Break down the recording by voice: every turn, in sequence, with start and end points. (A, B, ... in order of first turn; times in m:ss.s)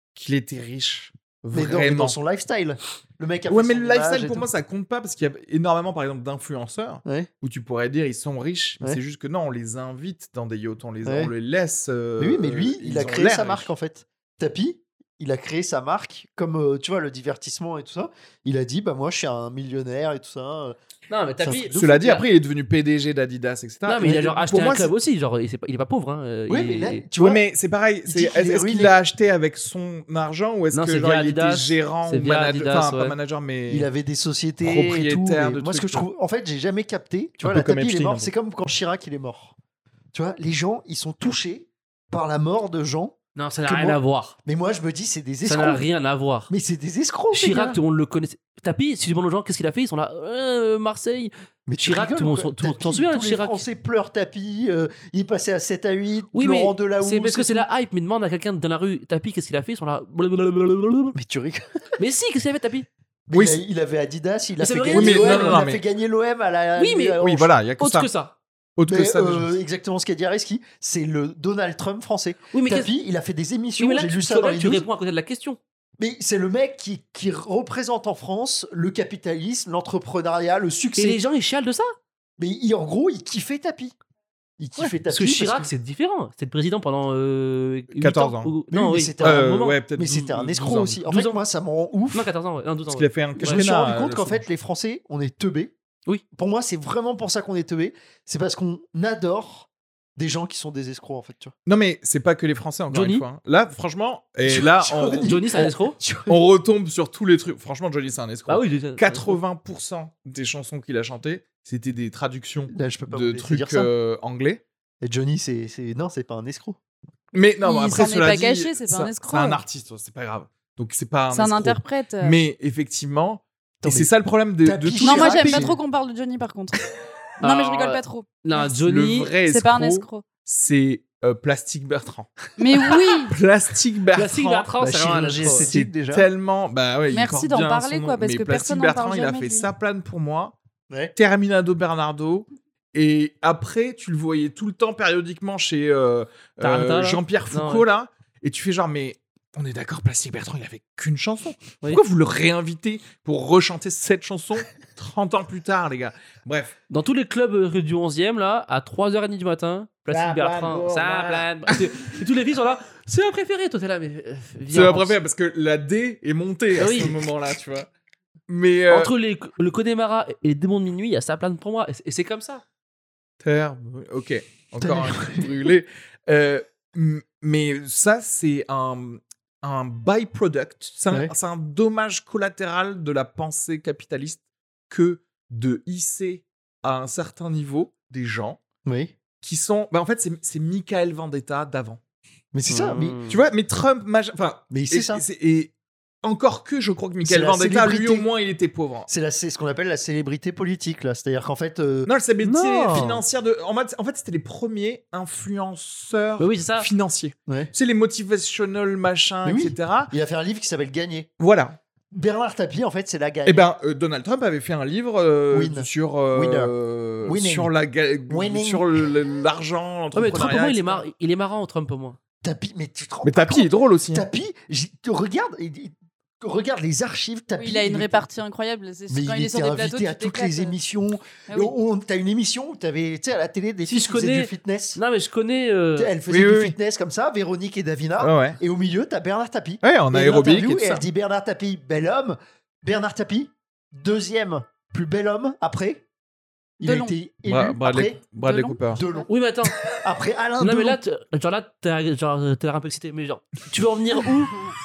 0:00.2-0:02.2 A
0:01.5-0:04.5 B
0:03.5-0:13.7 A
0:11.0-0:11.3 B
0:12.2-0:20.8 B
0:21.1-0:22.3 C
0:21.4-0:21.7 B
0:21.7-0:24.9 A
0:23.9-0:27.0 C
0:26.5-0:27.4 B
0:27.2-0:33.9 A
0:28.1-0:29.0 B
0:30.7-0:33.2 C
0:33.7-0:39.6 B
0:34.6-0:36.1 A
0:37.4-0:38.3 A
0:40.1-0:45.8 B
0:43.4-0:44.4 C
0:45.4-0:46.5 C
0:46.5-0:47.8 B
0:47.3-0:53.6 C
0:51.7-0:57.7 B
0:56.3-1:01.2 C
1:01.2-1:01.6 B
1:02.0-1:02.9 C
1:03.3-1:07.5 B
1:03.3-1:03.6 A
1:04.6-1:05.6 C
1:04.9-1:05.8 A
1:06.8-1:07.2 C
1:07.2-1:08.1 A
1:07.8-1:08.4 C
1:08.8-1:09.6 A
1:08.9-1:14.8 B
1:12.5-1:12.9 C
1:13.8-1:15.6 C
1:16.0-1:21.2 B
1:21.0-1:21.9 C
1:22.4-1:24.0 B
1:24.6-1:25.7 B
1:25.1-1:29.8 C
1:28.0-1:28.5 A
1:28.7-1:32.3 B
1:29.2-1:31.0 A
1:31.1-1:31.4 C
1:32.1-1:33.6 C
1:32.9-1:34.4 A
1:33.4-1:35.7 B
1:36.3-1:41.5 B
1:41.7-1:45.6 A
1:42.9-1:43.2 C
1:44.4-1:46.4 B
1:45.2-1:46.0 C
1:46.3-1:54.6 A
1:48.5-1:49.4 C
1:52.7-1:53.9 B
1:55.0-1:56.8 B
1:57.3-2:05.7 A
1:57.6-1:59.6 D
2:01.3-2:02.4 D
2:03.8-2:04.1 B
2:04.6-2:05.8 B
2:05.0-2:06.8 D
2:07.4-2:09.3 C
2:07.4-2:08.3 D
2:08.6-2:14.7 A
2:09.4-2:10.2 D
2:12.6-2:13.4 D
2:14.2-2:15.7 C
2:14.8-2:16.3 B
2:15.4-2:20.6 A
2:17.1-2:19.7 D
2:21.2-2:36.8 A
2:26.6-2:27.8 C
2:36.9-2:45.2 C
2:40.1-2:41.9 A
2:44.7-2:47.9 A
2:46.8-2:47.2 C
2:48.5-2:49.1 A
2:48.9-2:52.6 C
2:53.4-3:08.6 A
2:54.8-2:55.5 B
3:08.8-3:09.2 B
3:09.4-3:12.0 A
3:12.5-3:13.2 B
3:12.7-3:13.4 C
3:13.3-3:15.7 A
3:14.7-3:15.2 B
3:16.2-3:19.1 A
3:17.2-3:18.3 B
3:19.1-3:22.1 B
3:22.1-3:30.1 A
3:22.4-3:23.1 C
3:22.9-3:23.2 B
3:26.4-3:26.9 C
3:27.5-3:27.7 B
3:29.4-3:31.3 B
3:31.4-3:31.8 A
3:32.1-3:33.7 B
3:33.4-3:41.0 A
3:35.5-3:36.7 B
3:37.2-3:37.7 B
3:38.3-3:39.0 B
3:40.1-3:42.2 C
3:42.4-3:48.2 B
3:43.2-3:44.3 A
3:47.6-3:50.8 D
3:49.1-3:55.0 B
3:51.5-3:51.7 D
3:53.9-3:56.1 C
3:56.0-4:06.0 B
3:56.3-3:56.8 A
3:58.2-3:58.6 A
3:59.8-4:01.0 A
4:06.8-4:08.2 B
4:06.8-4:07.2 D
4:07.5-4:09.0 A
4:08.4-4:09.3 D
4:08.9-4:09.3 B
4:09.3-4:09.8 C
4:09.8-4:11.0 B
4:10.6-4:14.6 C